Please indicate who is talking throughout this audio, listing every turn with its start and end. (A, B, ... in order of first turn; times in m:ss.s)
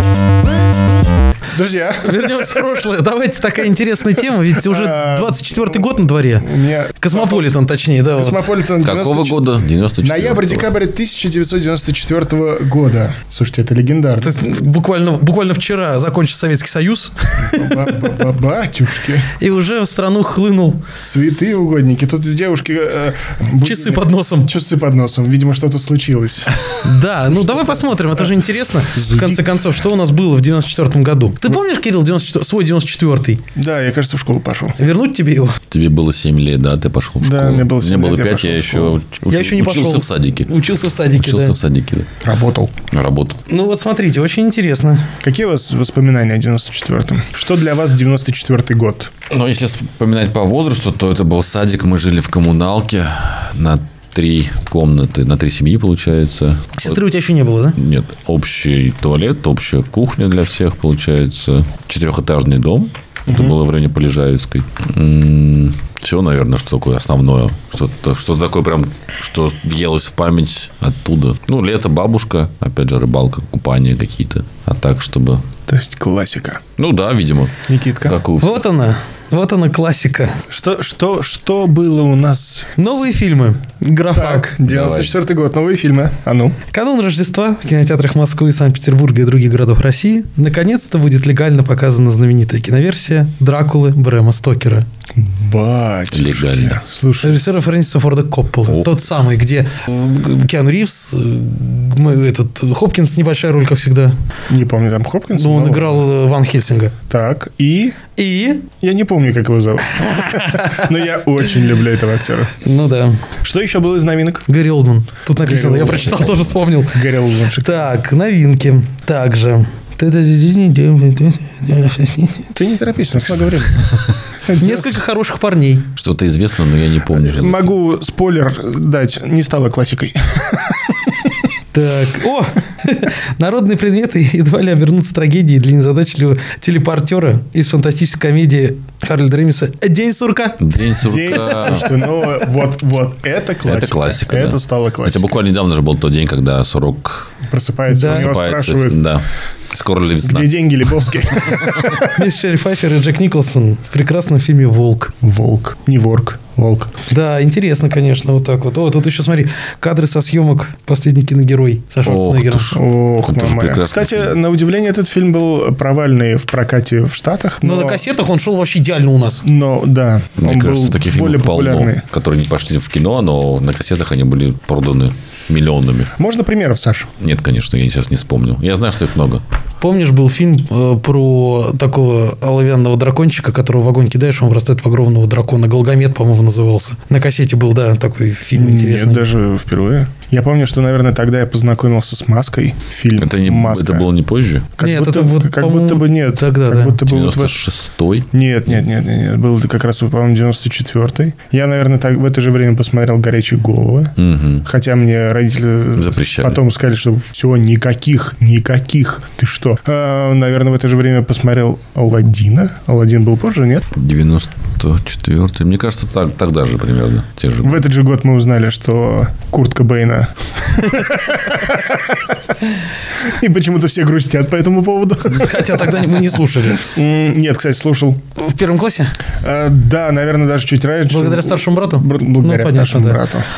0:01.5-0:02.6 A
0:02.0-0:08.5 B
0:04.6-0:07.5 A
0:08.2-0:09.5 A
0:08.8-0:10.7 C
0:10.0-0:14.4 A
0:14.2-0:18.2 B
0:17.4-0:19.3 A
0:19.4-0:20.8 B
0:21.0-0:28.3 A
0:23.6-0:24.5 B
0:26.7-0:33.4 B
0:28.9-0:29.6 A
0:33.6-0:34.8 A
0:34.8-0:35.6 B
0:35.7-0:42.1 C
0:37.2-0:39.0 A
0:39.3-0:41.5 B
0:42.2-0:42.7 A
0:42.9-0:43.4 C
0:43.5-0:45.2 B
0:45.2-0:49.1 A
0:49.3-0:57.0 C
0:56.8-0:57.8 B
0:57.8-1:15.5 C
1:15.7-1:16.6 A
1:16.8-1:18.6 C
1:17.6-1:18.2 A
1:18.4-1:20.4 B
1:20.5-1:22.8 A
1:22.8-1:24.6 B
1:24.1-1:26.6 A
1:24.6-1:25.2 C
1:26.7-1:34.8 B
1:35.2-1:37.4 A
1:36.1-1:36.8 C
1:37.2-1:44.1 B
1:38.7-1:39.1 C
1:44.5-1:46.0 A
1:45.4-1:46.9 B
1:47.1-1:48.0 A
1:48.2-1:48.7 B
1:48.8-1:52.6 A
1:50.0-1:50.9 B
1:52.6-1:53.2 B
1:53.4-1:54.5 A
1:54.5-1:57.1 B
1:55.4-1:56.2 A
1:55.8-1:56.6 C
1:56.9-1:57.9 A
1:57.6-2:02.5 B
2:02.5-2:05.0 A
2:04.6-2:05.9 B
2:06.0-2:07.8 C
2:07.1-2:11.3 A
2:11.7-2:20.9 B
2:20.6-2:22.0 C
2:21.0-2:25.4 A
2:21.5-2:22.5 B
2:23.6-2:27.3 C
2:27.4-2:29.0 A
2:27.9-2:28.3 B
2:28.1-2:31.9 C
2:30.2-2:32.2 A
2:32.0-2:35.1 B
2:35.2-2:37.0 A
2:37.1-2:42.8 B
2:42.0-2:44.4 C
2:42.7-2:48.0 A
2:47.6-2:49.4 B
2:49.4-2:52.0 A
2:50.4-2:56.1 C
2:56.2-2:57.1 A
2:57.2-2:59.4 C
2:59.8-3:09.3 B
3:08.5-3:14.1 A
3:13.2-3:14.7 C
3:14.8-3:17.6 A
3:14.8-3:17.0 B
3:17.0-3:18.8 C
3:18.3-3:33.9 A
3:24.2-3:24.6 C
3:26.0-3:26.6 C
3:33.9-3:37.8 C
3:37.6-3:42.4 A
3:43.2-3:46.1 A
3:45.3-3:46.9 B
3:46.7-3:48.2 A
3:48.4-3:49.2 B
3:49.4-3:53.5 A
3:51.1-3:53.2 B